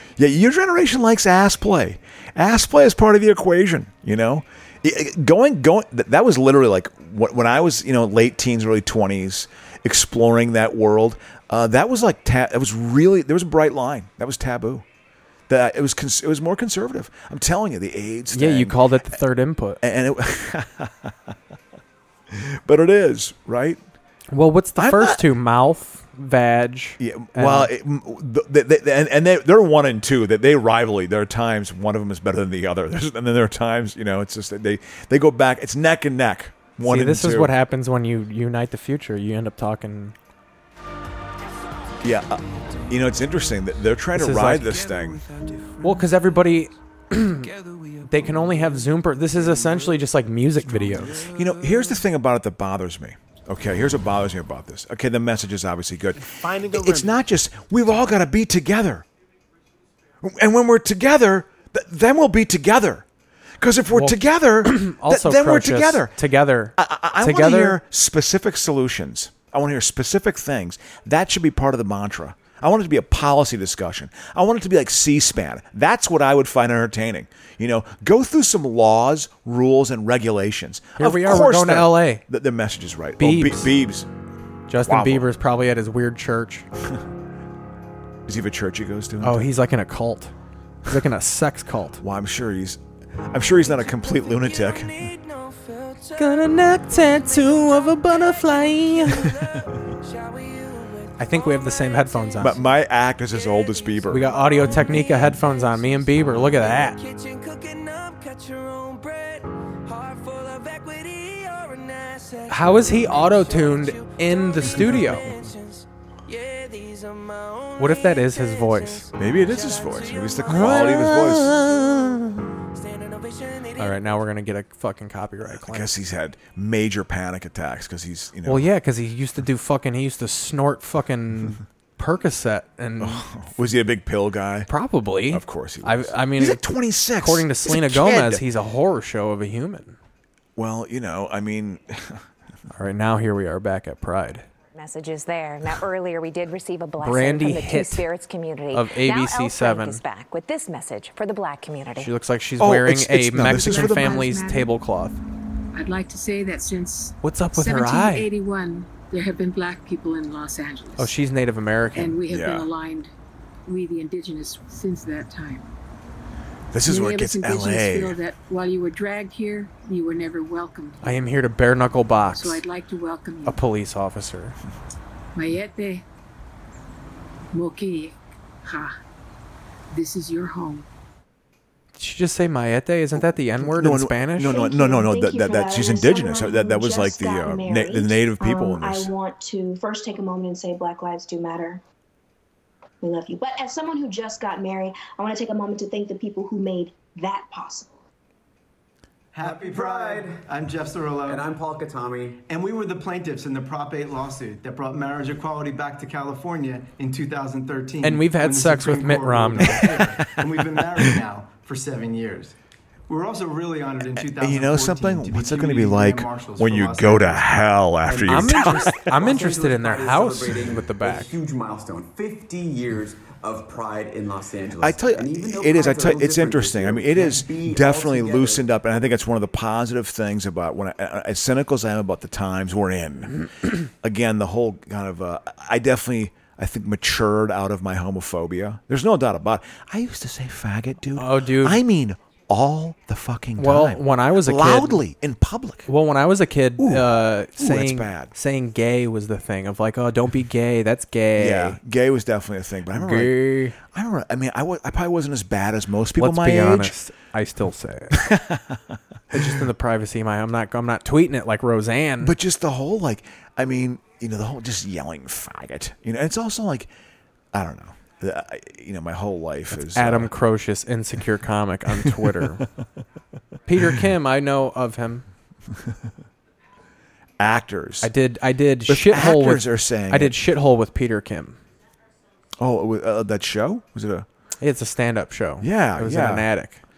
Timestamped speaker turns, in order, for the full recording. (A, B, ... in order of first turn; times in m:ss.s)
0:00.2-0:14.8 A
0:15.5-0:18.8 A
0:18.3-0:19.8 B
0:19.8-0:21.3 A
0:22.3-0:23.8 A
0:24.3-0:27.7 B
0:24.8-0:25.2 A
0:27.0-0:37.5 A
0:36.8-0:40.2 B
0:42.0-0:45.3 A
0:44.2-0:44.9 B
0:45.8-0:47.5 B
0:48.0-0:51.3 B
0:51.1-0:59.0 A
1:00.2-1:03.1 A
1:03.6-1:06.1 A
1:03.9-1:07.8 B
1:06.8-1:24.1 A
1:21.0-1:22.2 B
1:23.2-1:23.7 B
1:24.7-1:26.7 B
1:24.8-1:25.3 A
1:28.3-1:29.5 A
1:29.2-1:30.3 B
1:30.9-1:32.0 B
1:32.0-1:35.1 A
1:33.6-1:42.6 C
1:36.2-1:39.2 B
1:41.2-1:42.6 B
1:42.4-1:44.4 A
1:43.3-2:02.2 C
1:44.1-1:47.0 B
1:52.5-1:55.3 B
1:57.8-1:59.1 B
1:59.2-2:01.7 A
2:00.5-2:01.7 B
2:02.7-2:04.2 C
2:03.8-2:05.9 B
2:05.5-2:08.7 A
2:08.5-2:13.3 B
2:13.0-2:14.7 A
2:14.7-2:16.6 B
2:15.3-2:18.4 A
2:17.2-2:20.0 B
2:20.6-2:22.2 A
2:22.7-2:24.4 B
2:24.7-2:32.1 D
2:27.0-2:28.1 B
2:28.7-2:30.0 B
2:32.0-2:35.2 B
2:32.6-2:34.2 A
2:33.5-2:34.7 E
2:35.7-2:41.1 E
2:37.2-2:38.3 B
2:41.0-2:42.2 B
2:41.9-2:43.1 E
2:42.3-2:42.7 A
2:43.7-2:45.7 E
2:46.7-2:48.2 A
2:46.9-2:51.1 E
2:51.0-2:52.6 B
2:52.3-2:53.6 E
2:53.5-2:54.6 B
2:55.4-2:56.0 E
2:57.5-2:59.0 E
2:59.9-3:00.9 E
3:02.0-3:04.6 B
3:03.6-3:09.1 A
3:04.4-3:11.8 F
3:13.0-3:17.9 F
3:19.3-3:21.5 G
3:19.4-3:20.4 H
3:21.3-3:22.4 H
3:22.5-3:32.6 G
3:28.0-3:30.0 B
3:29.8-3:30.4 A
3:33.1-3:37.5 G
3:34.3-3:39.2 A
3:38.1-3:48.8 H
3:38.2-3:41.3 B
3:44.8-3:53.4 A
3:54.0-4:05.9 A
4:01.2-4:01.8 B
4:03.6-4:05.0 B
4:05.9-4:11.8 B
4:06.8-4:08.3 A
4:11.4-4:16.9 A
4:12.9-4:13.8 B
4:16.2-4:18.2 B
4:18.1-4:18.8 A
4:19.3-4:22.3 B
4:22.2-4:26.9 A
4:27.5-4:30.3 A
4:29.7-4:32.6 B
4:32.0-4:32.6 A
4:33.7-4:35.2 B
4:37.4-4:38.1 A
4:38.0-4:41.6 B
4:38.9-4:40.4 A
4:42.6-4:44.3 A
4:44.6-4:46.8 B
4:45.6-4:46.5 A